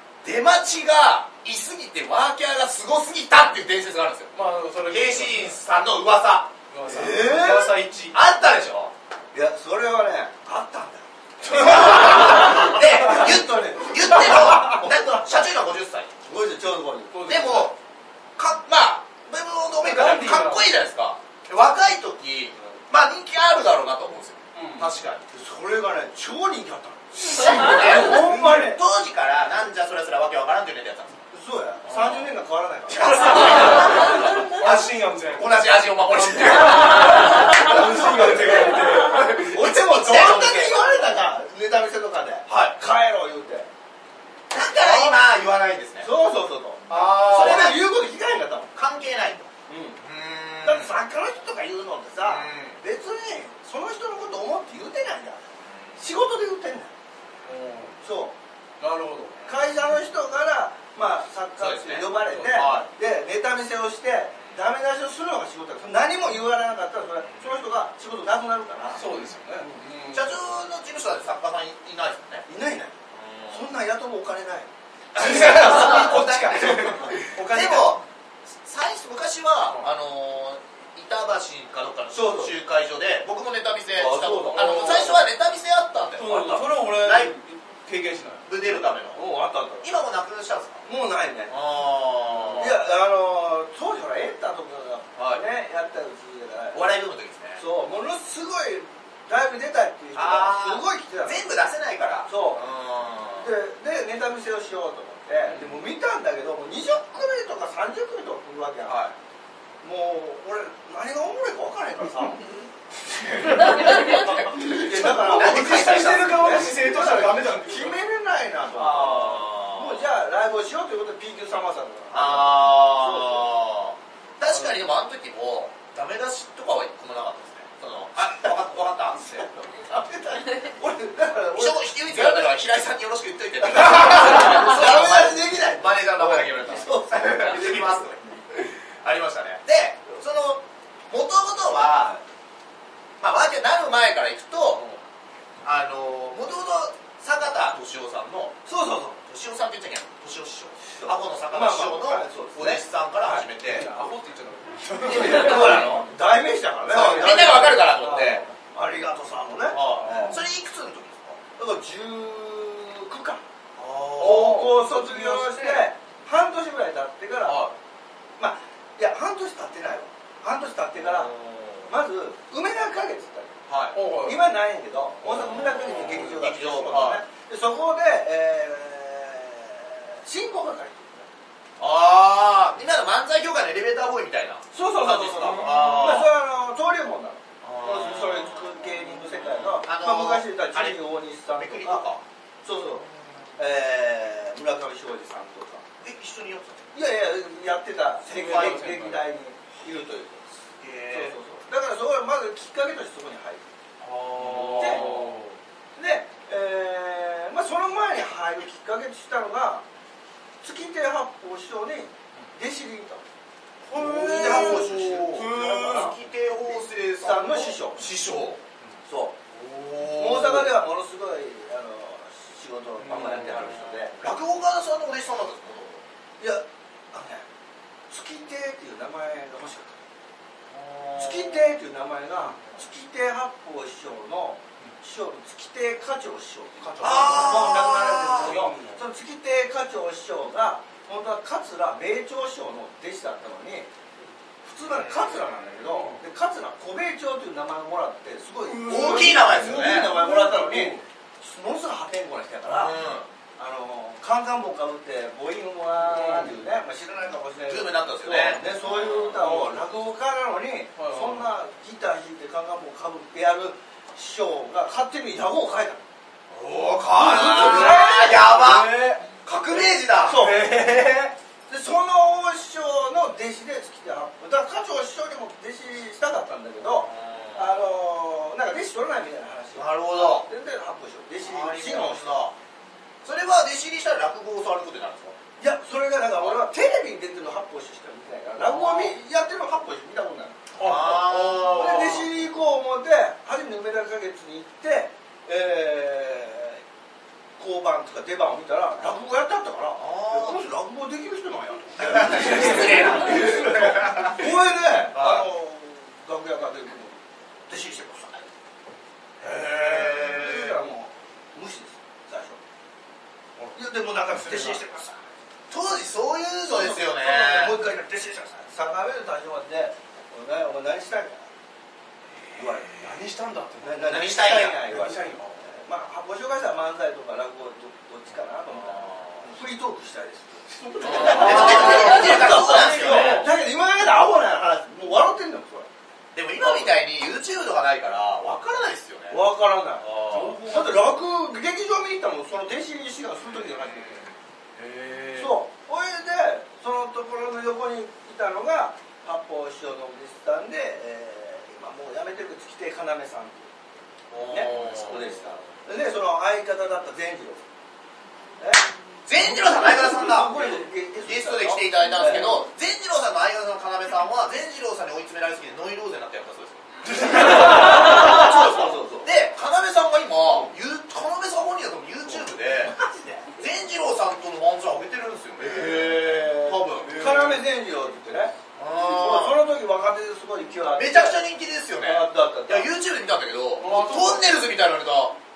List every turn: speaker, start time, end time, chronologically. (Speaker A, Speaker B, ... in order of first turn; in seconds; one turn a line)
Speaker A: 0.2-7.2
Speaker B: 4.3-5.6
Speaker B: 6.7-8.2
Speaker C: 6.8-7.8
Speaker A: 8.1-8.9
Speaker C: 9.3-15.4
Speaker B: 11.4-12.6
Speaker A: 11.5-16.1
Speaker C: 16.2-17.4
Speaker B: 17.1-17.7
Speaker A: 17.2-17.8
Speaker A: 18.4-25.3
Speaker B: 19.8-20.7
Speaker B: 24.5-24.9
Speaker C: 25.3-28.8
Speaker A: 27.4-31.2
Speaker B: 27.5-28.6
Speaker C: 31.3-34.8
Speaker A: 31.8-32.3
Speaker A: 32.9-37.7
Speaker B: 33.2-39.6
Speaker C: 37.6-43.7
Speaker A: 39.5-41.1
Speaker A: 42.5-42.8
Speaker A: 44.5-46.1
Speaker C: 44.7-45.2
Speaker C: 46.0-48.7
Speaker A: 46.9-47.9
Speaker A: 48.8-49.5
Speaker C: 49.7-50.0
Speaker A: 50.0-50.9
Speaker C: 50.6-55.4
Speaker A: 52.2-52.8
Speaker A: 55.6-56.0
Speaker C: 56.0-56.9
Speaker B: 57.4-58.0
Speaker C: 58.0-58.3
Speaker B: 58.8-59.4
Speaker C: 59.5-69.0
Speaker A: 61.6-62.9
Speaker B: 62.2-62.8
Speaker A: 67.2-67.5
Speaker B: 68.9-70.3
Speaker A: 70.1-72.5
Speaker C: 72.5-73.0
Speaker A: 73.1-73.7
Speaker C: 73.5-74.7
Speaker A: 75.1-78.0
Speaker B: 75.1-78.0
Speaker A: 78.6-87.4
Speaker C: 82.1-82.6
Speaker C: 83.9-85.3
Speaker B: 86.2-88.5
Speaker C: 86.3-86.7
Speaker A: 88.5-89.2
Speaker C: 89.1-89.9
Speaker A: 89.8-90.8
Speaker C: 90.8-91.5
Speaker A: 91.5-92.8
Speaker C: 92.5-97.0
Speaker A: 95.2-95.4
Speaker A: 96.7-97.6
Speaker C: 97.6-101.6
Speaker A: 100.1-103.5
Speaker C: 102.2-102.6
Speaker C: 103.4-109.0
Speaker A: 108.8-109.2
Speaker C: 109.8-112.4
Speaker C: 113.3-123.5
Speaker B: 113.4-117.9
Speaker A: 113.8-114.5
Speaker A: 115.2-116.6
Speaker A: 118.7-120.1
Speaker A: 122.1-129.5
Speaker C: 129.5-132.5
Speaker A: 131.5-142.1
Speaker C: 133.6-137.9
Speaker C: 141.8-142.2
Speaker A: 143.2-144.9
Speaker A: 145.6-148.6
Speaker C: 148.6-149.2
Speaker A: 149.3-153.9
Speaker C: 150.9-154.1
Speaker B: 153.6-155.9
Speaker C: 155.0-160.4
Speaker A: 156.9-158.4
Speaker A: 159.7-161.4
Speaker B: 160.0-160.4
Speaker C: 161.6-163.4
Speaker A: 163.8-164.7
Speaker C: 164.2-167.7
Speaker B: 164.2-165.9
Speaker A: 167.4-167.8
Speaker C: 168.4-171.3
Speaker A: 170.9-171.9
Speaker C: 171.8-173.6
Speaker A: 173.7-174.0
Speaker B: 173.9-174.5
Speaker C: 174.1-181.3
Speaker A: 175.2-177.2
Speaker A: 181.8-186.3
Speaker C: 184.7-192.1
Speaker A: 187.6-192.2
Speaker C: 192.6-193.1
Speaker A: 193.0-193.5
Speaker C: 193.6-195.8
Speaker A: 196.0-196.8
Speaker C: 196.9-200.4
Speaker A: 198.2-198.8
Speaker B: 198.2-199.2
Speaker A: 200.8-201.3
Speaker C: 201.1-203.7
Speaker A: 204.0-205.4
Speaker B: 204.3-205.6
Speaker C: 204.7-205.2
Speaker C: 205.9-209.8
Speaker C: 210.6-213.2
Speaker B: 213.9-215.1
Speaker A: 213.9-218.6
Speaker C: 213.9-216.2
Speaker C: 217.2-218.1
Speaker C: 219.1-219.4
Speaker A: 219.5-220.7
Speaker C: 220.2-224.2
Speaker B: 223.0-223.7
Speaker A: 223.1-226.0
Speaker C: 226.4-227.4
Speaker C: 228.1-230.0
Speaker A: 230.7-231.8
Speaker C: 231.2-243.9
Speaker B: 236.8-237.7
Speaker A: 237.0-238.7
Speaker B: 238.2-239.0
Speaker C: 244.6-253.0
Speaker A: 244.8-245.8
Speaker B: 245.9-246.2
Speaker B: 248.7-251.1
Speaker A: 248.8-250.2
Speaker A: 252.7-253.3
Speaker C: 253.6-266.1
Speaker B: 256.1-256.5
Speaker A: 257.7-259.5
Speaker B: 259.4-259.8
Speaker B: 261.0-261.5
Speaker A: 266.5-270.6
Speaker C: 267.1-268.9
Speaker B: 267.3-269.2
Speaker C: 270.2-282.5
Speaker B: 270.3-271.3
Speaker A: 276.8-277.8
Speaker A: 279.7-280.5
Speaker A: 281.4-282.6
Speaker A: 283.2-285.4
Speaker C: 285.6-290.6
Speaker A: 288.6-289.2
Speaker B: 290.7-292.3
Speaker A: 290.8-292.3
Speaker C: 291.7-296.8
Speaker C: 297.6-308.4
Speaker A: 299.9-300.6
Speaker A: 302.0-304.4
Speaker B: 302.4-303.6
Speaker A: 305.1-305.4
Speaker A: 309.4-310.9
Speaker C: 309.4-312.6
Speaker C: 313.7-315.2
Speaker B: 314.4-314.8
Speaker A: 315.7-317.8
Speaker C: 316.7-321.5
Speaker C: 322.5-323.2
Speaker B: 322.8-325.6
Speaker C: 323.8-335.9
Speaker A: 324.0-324.8
Speaker A: 328.7-329.4
Speaker B: 330.7-333.5
Speaker A: 331.0-333.5
Speaker A: 336.3-339.5
Speaker C: 336.6-336.9
Speaker C: 339.3-344.3
Speaker A: 340.0-340.6
Speaker B: 340.2-341.2
Speaker A: 343.7-344.3
Speaker B: 344.8-345.5
Speaker C: 345.3-353.7
Speaker A: 354.3-355.6
Speaker C: 354.4-357.6
Speaker B: 354.7-355.3
Speaker C: 358.6-358.9
Speaker A: 359.2-360.7
Speaker C: 359.4-362.6
Speaker A: 361.2-372.9
Speaker C: 367.2-369.3
Speaker B: 367.3-367.9
Speaker C: 372.9-373.5
Speaker A: 373.6-377.4
Speaker C: 375.6-381.4
Speaker B: 377.0-377.6
Speaker A: 378.8-379.6
Speaker A: 380.9-385.4
Speaker C: 382.0-382.9
Speaker B: 383.8-384.6